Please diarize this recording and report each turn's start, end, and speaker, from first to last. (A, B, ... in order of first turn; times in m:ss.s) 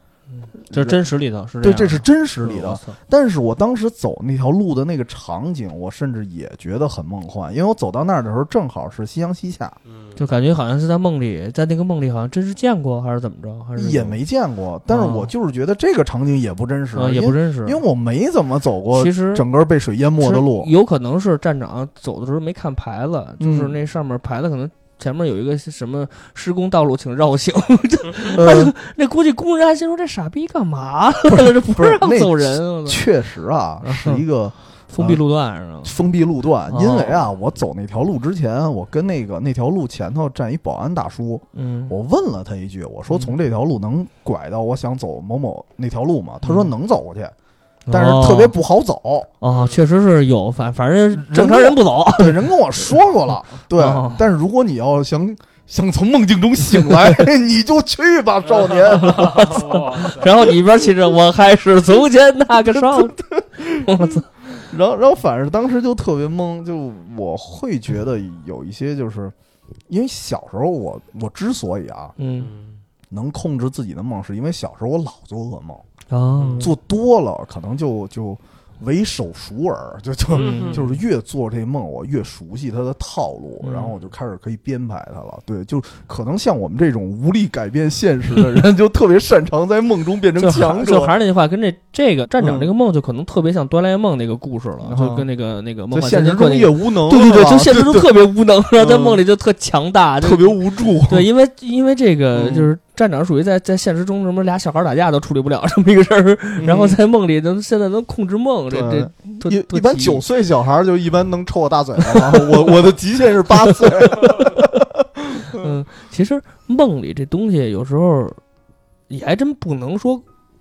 0:00.3-0:03.0 A
0:00.7-0:01.0 B
0:01.6-0:09.8 B
0:09.8-0:10.2 C
0:10.2-0:14.2 A
0:13.8-0:20.7 B
0:14.9-0:15.3 A
0:16.9-0:17.8 A
0:18.9-0:19.4 A
0:20.2-0:33.0 A
0:23.4-0:23.8 B
0:28.3-0:28.7 B
0:31.3-0:35.2 B
0:33.8-0:34.2 A
0:34.9-0:35.9 A
0:35.8-0:47.3 B
0:36.7-0:37.3 A
0:41.5-0:41.9 A
0:46.4-0:46.7 A
0:47.9-0:48.5 A
0:47.9-0:49.3 B
0:49.4-0:52.9 A
0:49.4-0:49.8 C
0:51.1-0:59.7 B
0:53.7-0:54.2 A
0:56.8-0:57.2 A
0:58.5-1:00.4 C
0:59.0-1:03.2 A
1:02.7-1:09.3 B
1:03.7-1:04.2 A
1:09.9-1:12.1 B
1:12.2-1:12.5 A
1:12.4-1:12.8 C
1:13.1-1:15.8 B
1:16.1-1:16.7 A
1:16.4-1:16.7 C
1:16.6-1:31.1 B
1:20.3-1:20.8 C
1:20.3-1:21.0 A
1:23.6-1:23.9 A
1:30.4-1:50.2 A
1:32.4-1:32.7 B
1:34.8-1:35.3 B
1:35.9-1:38.2 B
1:38.7-1:39.2 B
1:40.2-1:41.3 B
1:42.3-1:42.7 B
1:46.6-1:47.0 B
1:48.7-1:55.6 B
1:52.0-1:52.7 A
1:53.5-1:54.6 A
1:55.5-1:58.4 A
1:59.1-2:00.2 A